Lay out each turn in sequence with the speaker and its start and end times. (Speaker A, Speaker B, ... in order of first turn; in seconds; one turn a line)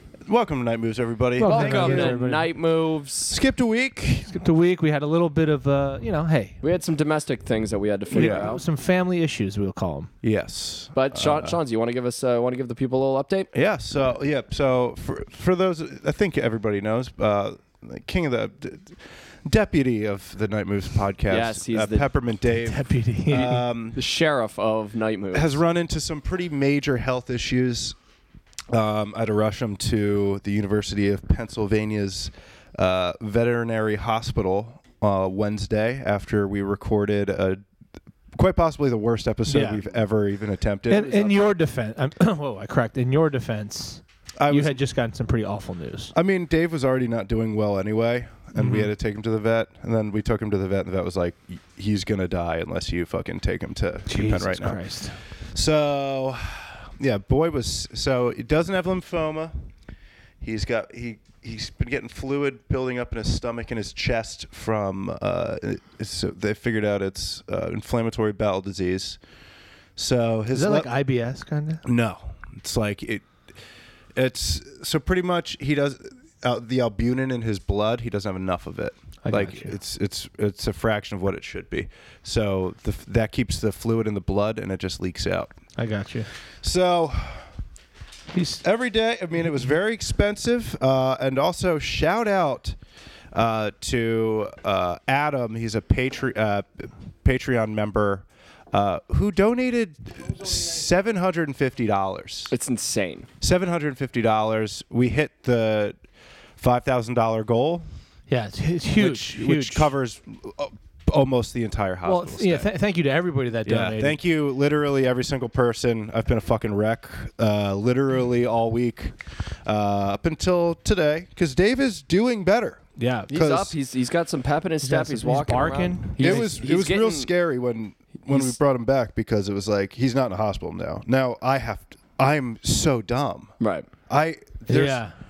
Speaker A: 0.3-2.2
Speaker B: 1.4-2.5
Speaker C: 1.4-3.4
Speaker A: 3.3-4.3
Speaker B: 4.3-6.6
Speaker C: 6.6-8.6
Speaker B: 8.1-10.1
Speaker A: 8.1-8.6
Speaker A: 10.2-11.6
Speaker C: 10.9-13.5
Speaker A: 13.5-24.0
Speaker C: 21.3-22.1
Speaker B: 22.6-23.6
Speaker C: 23.9-25.6
Speaker A: 25.3-27.9
Speaker A: 28.7-37.6
Speaker A: 38.3-41.5
Speaker B: 39.5-39.8
Speaker B: 40.9-46.1
Speaker A: 44.4-44.8
Speaker A: 46.1-54.8
Speaker B: 48.5-48.9
Speaker B: 54.1-55.2
Speaker A: 55.5-59.6
Speaker A: 60.4-69.2
Speaker A: 70.0-70.9
Speaker B: 70.5-71.8
Speaker A: 71.8-73.3
Speaker A: 74.1-85.5
Speaker B: 79.2-79.7
Speaker B: 85.8-86.3
Speaker A: 86.6-87.5
Speaker B: 88.3-88.6
Speaker A: 88.6-92.8
Speaker A: 93.3-102.5
Speaker C: 102.5-103.3
Speaker A: 103.4-106.0
Speaker A: 106.6-107.9
Speaker B: 108.3-109.9
Speaker A: 109.0-112.7
Speaker B: 112.0-114.2
Speaker A: 113.6-123.7
Speaker B: 123.0-123.3
Speaker C: 123.3-127.3
Speaker B: 124.8-126.5
Speaker A: 126.2-133.5
Speaker C: 133.6-133.9
Speaker A: 134.1-135.0
Speaker B: 134.7-135.1